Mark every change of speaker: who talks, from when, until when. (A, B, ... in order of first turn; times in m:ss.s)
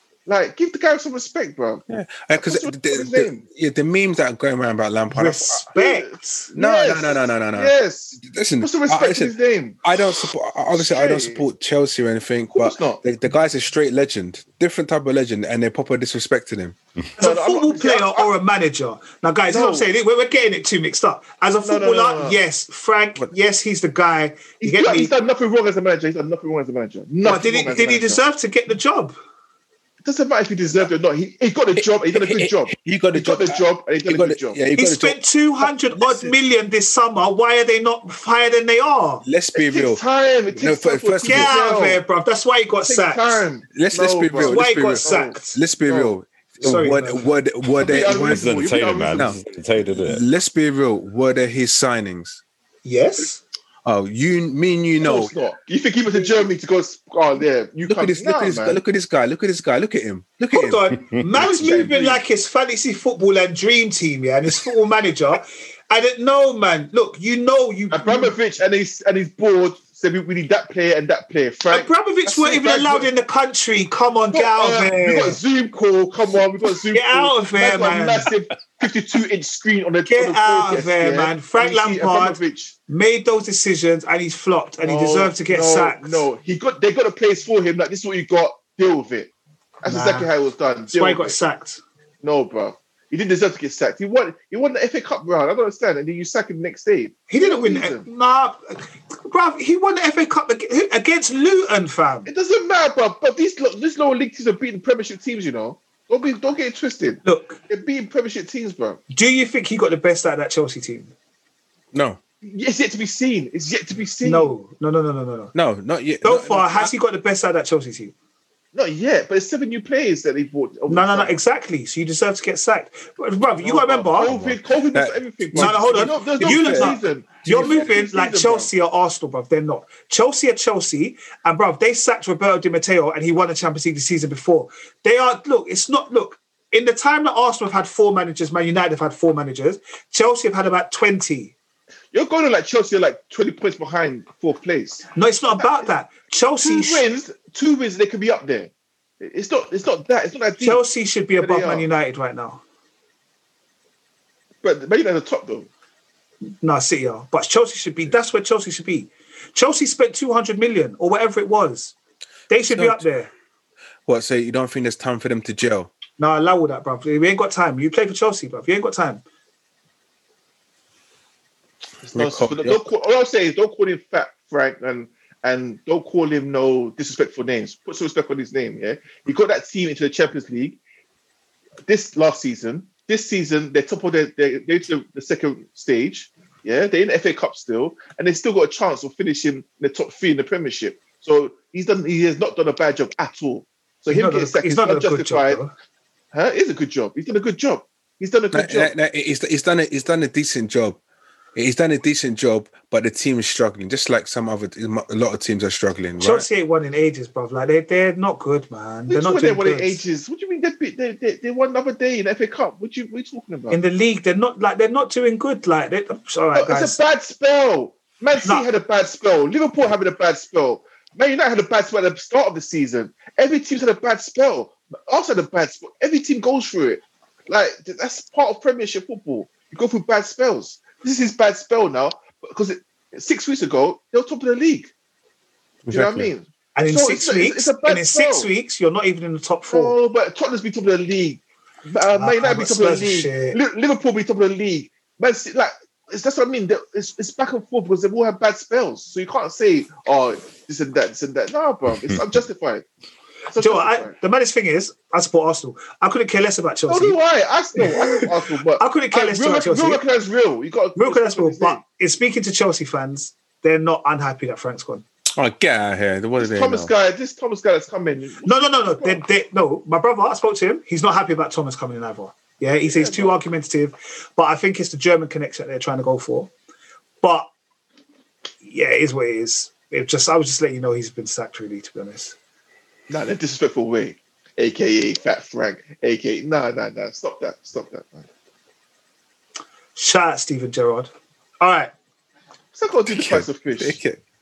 0:00.2-0:03.4 A
0:01.9-0:05.6 B
0:05.1-0:06.5 C
0:05.7-0:09.9 A
0:06.6-0:09.3 B
0:09.8-0:16.8 B
0:10.7-0:11.4 A
0:12.5-0:13.0 A
0:17.2-0:18.3 A
0:17.2-0:25.1 C
0:19.5-0:19.9 A
0:21.6-0:22.4 A
0:24.6-0:28.2 A
0:27.2-0:29.1 C
0:30.0-0:34.6 A
0:31.8-0:36.3 B
0:34.8-0:39.2 C
0:39.2-0:40.0 B
0:39.5-0:42.0 A
0:40.6-0:41.6 B
0:41.2-0:43.4 C
0:42.9-0:45.3 A
0:43.7-0:48.6 B
0:44.4-0:45.6 C
0:45.9-0:46.8 A
0:46.6-0:47.3 C
0:47.8-0:50.2 D
0:47.8-0:49.4 A
0:49.1-0:49.4 B
0:50.0-0:52.4 B
0:52.8-0:53.4 C
0:53.8-0:55.3 B
0:55.0-0:58.8 A
0:57.9-1:00.9 B
1:00.5-1:08.3 C
1:01.3-1:02.2 A
1:07.9-1:13.1 A
1:11.7-1:15.4 C
1:14.3-1:22.7 A
1:16.9-1:18.3 C
1:20.1-1:26.2 C
1:24.8-1:29.3 A
1:29.8-1:31.3 A
1:29.8-1:30.3 C
1:30.9-1:31.8 C
1:32.2-1:38.0 A
1:37.3-1:42.3 C
1:42.3-1:49.0 A
1:47.2-1:47.6 C
1:49.1-1:51.1 C
1:51.9-1:52.2 B
1:52.4-1:54.5 A
1:54.2-1:55.5 C
1:55.5-1:56.9 B
1:56.2-1:58.1 C
1:58.7-2:01.4 A
2:00.9-2:04.3 C
2:03.6-2:08.7 A
2:04.2-2:07.0 B
2:05.5-2:21.5 C
2:22.1-2:25.1 A
2:25.1-2:27.0 C
2:26.6-2:30.8 A
2:30.6-2:32.6 C
2:31.4-2:31.9 A
2:34.6-2:35.7 A
2:36.6-2:41.9 C
2:42.5-2:43.3 C
2:42.7-2:43.0 B
2:44.1-2:45.9 B
2:46.2-2:49.2 C
2:52.0-3:00.8 A
2:52.1-2:52.9 B
3:01.9-3:15.6 A
3:14.1-3:15.7 C
3:16.3-3:18.9 A
3:18.5-3:21.0 B
3:21.5-3:26.4 B
3:26.2-3:30.0 C
3:29.1-3:33.8 A
3:33.7-3:37.0 C
3:36.5-3:54.9 A
3:55.8-3:56.3 B
3:55.9-3:58.5 A
3:56.7-4:00.0 C
3:59.7-4:12.8 A
4:02.1-4:03.6 C
4:13.5-4:14.1 A
4:13.6-4:17.2 C
4:16.9-4:21.8 A
4:17.8-4:20.0 C
4:21.0-4:25.0 C
4:25.4-4:26.9 B
4:26.4-4:29.2 A
4:28.4-4:36.5 C
4:32.9-4:33.4 A
4:37.2-4:37.5 C
4:38.6-4:42.4 C
4:43.1-4:48.3 A
4:50.0-4:51.9 C
4:52.7-4:54.0 A
4:53.1-4:54.2 B